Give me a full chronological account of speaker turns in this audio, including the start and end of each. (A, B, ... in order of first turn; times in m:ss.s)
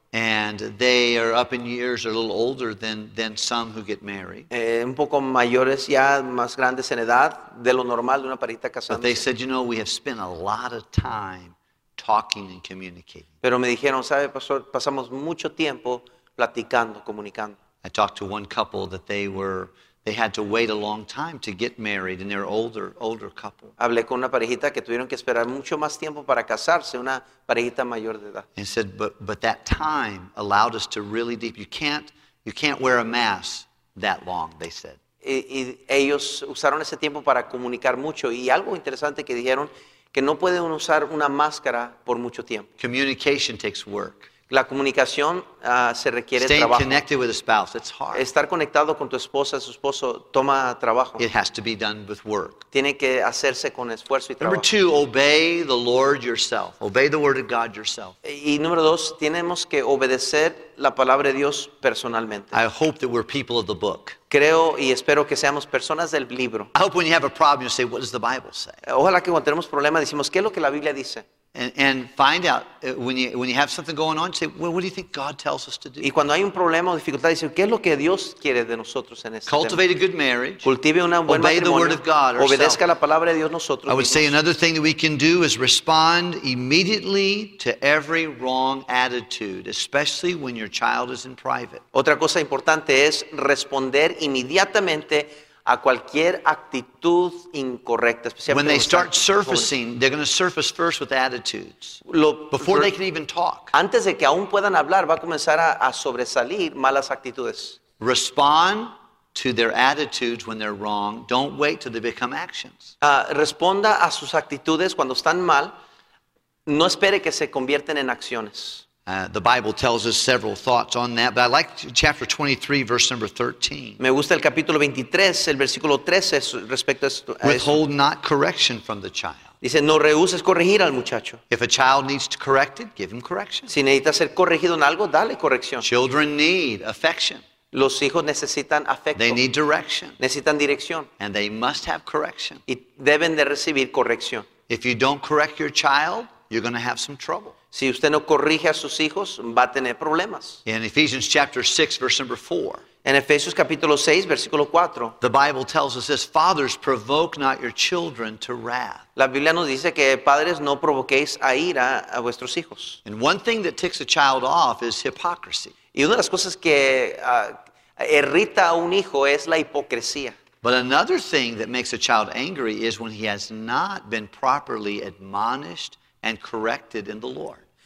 0:00.1-0:04.5 A
0:04.5-0:09.2 B
0:08.9-0:13.3 A
0:13.4-0:17.6 B
0:17.8-0:23.7 A
0:23.8-0:28.5 B
0:28.6-0:35.0 A
0:35.2-0:42.7 B
0:42.8-0:44.3 A
0:44.5-0:47.0 B
0:46.4-0:48.3 A
0:48.1-0:51.2 B
0:51.2-0:52.6 A
0:52.7-0:54.7 B
0:54.4-0:58.1 A
0:58.2-1:02.6 B
1:02.5-1:04.2 A
1:04.3-1:06.7 B
1:06.7-1:08.8 A
1:08.8-1:11.2 B
1:11.5-1:16.1 A
1:16.0-1:19.8 B
1:19.5-1:20.7 A
1:20.6-1:24.3 B
1:21.3-1:22.8 A
1:23.9-1:31.8 A
1:31.9-1:39.7 B
1:38.5-1:42.0 A
1:42.0-1:42.9 B
1:42.5-1:43.7 A
1:43.7-1:47.8 B
1:48.0-1:52.9 A
1:53.0-1:55.7 B
1:56.6-1:58.8 B
1:59.1-2:04.0 A
2:04.0-2:07.8 B
2:07.4-2:09.5 A
2:09.6-2:11.4 B
2:11.5-2:13.7 A
2:13.7-2:15.9 B
2:15.8-2:17.4 A
2:17.7-2:19.4 B
2:19.1-2:20.2 A
2:20.2-2:21.1 B
2:21.2-2:22.6 A
2:22.7-2:24.5 B
2:24.7-2:27.5 A
2:27.7-2:30.6 B
2:30.6-2:32.8 A
2:33.0-2:35.2 B
2:35.2-2:39.0 A
2:39.2-2:43.0 B
2:43.0-2:45.7 A
2:45.9-2:50.4 B
2:50.6-2:57.6 A